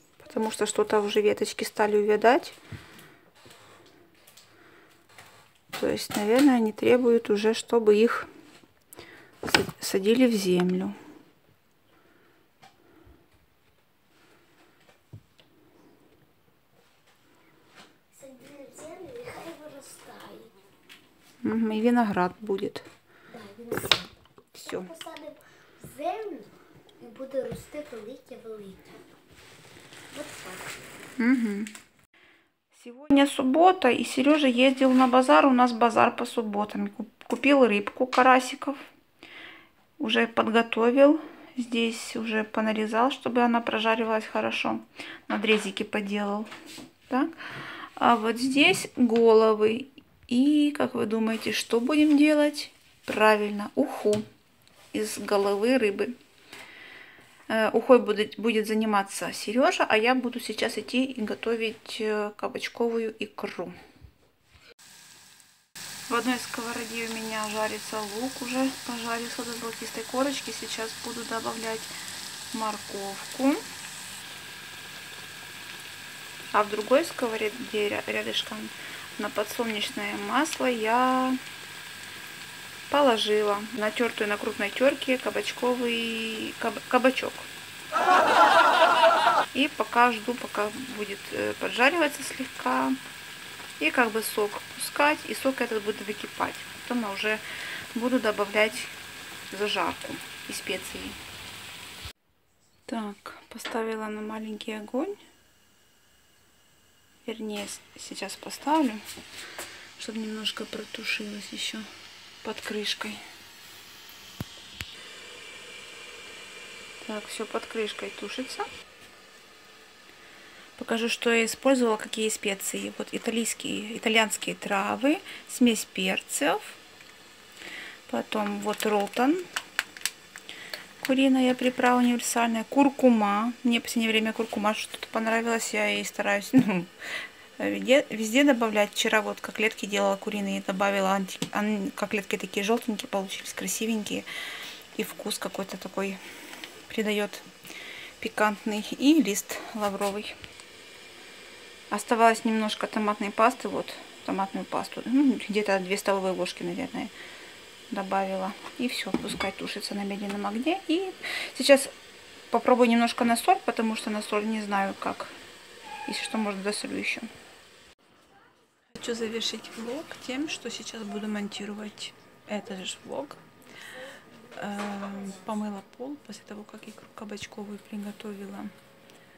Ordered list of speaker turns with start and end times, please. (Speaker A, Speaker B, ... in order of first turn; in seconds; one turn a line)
Speaker A: 0.2-2.6
Speaker A: 5.7-8.3
Speaker A: 9.4-10.9
Speaker B: 18.1-20.5
Speaker A: 21.4-22.9
Speaker B: 23.3-24.1
Speaker A: 24.5-24.9
Speaker B: 24.6-29.0
Speaker B: 30.1-30.7
Speaker A: 31.2-31.7
Speaker A: 32.8-38.8
Speaker A: 40.0-46.5
Speaker A: 48.0-54.2
Speaker A: 54.9-56.1
Speaker A: 57.5-63.8
Speaker A: 66.1-71.9
Speaker A: 72.5-73.6
Speaker A: 76.5-81.4
Speaker A: 82.9-87.5
Speaker A: 89.5-93.0
Speaker A: 93.8-97.4
Speaker A: 98.0-99.0
Speaker A: 99.5-101.2
Speaker A: 102.9-105.2
Speaker A: 107.2-109.0
Speaker A: 110.0-111.8
Speaker A: 112.4-113.2
Speaker A: 117.0-118.7
Speaker A: 120.8-126.8
Speaker A: 128.1-129.4
Speaker A: 131.0-136.9
Speaker A: 137.6-144.3
Speaker A: 144.9-146.2
Speaker A: 146.9-147.4
Speaker A: 148.2-150.3
Speaker A: 151.9-157.1
Speaker A: 157.9-161.9
Speaker A: 162.5-165.3
Speaker A: 166.1-167.3
Speaker A: 168.9-173.4
Speaker A: 174.6-178.7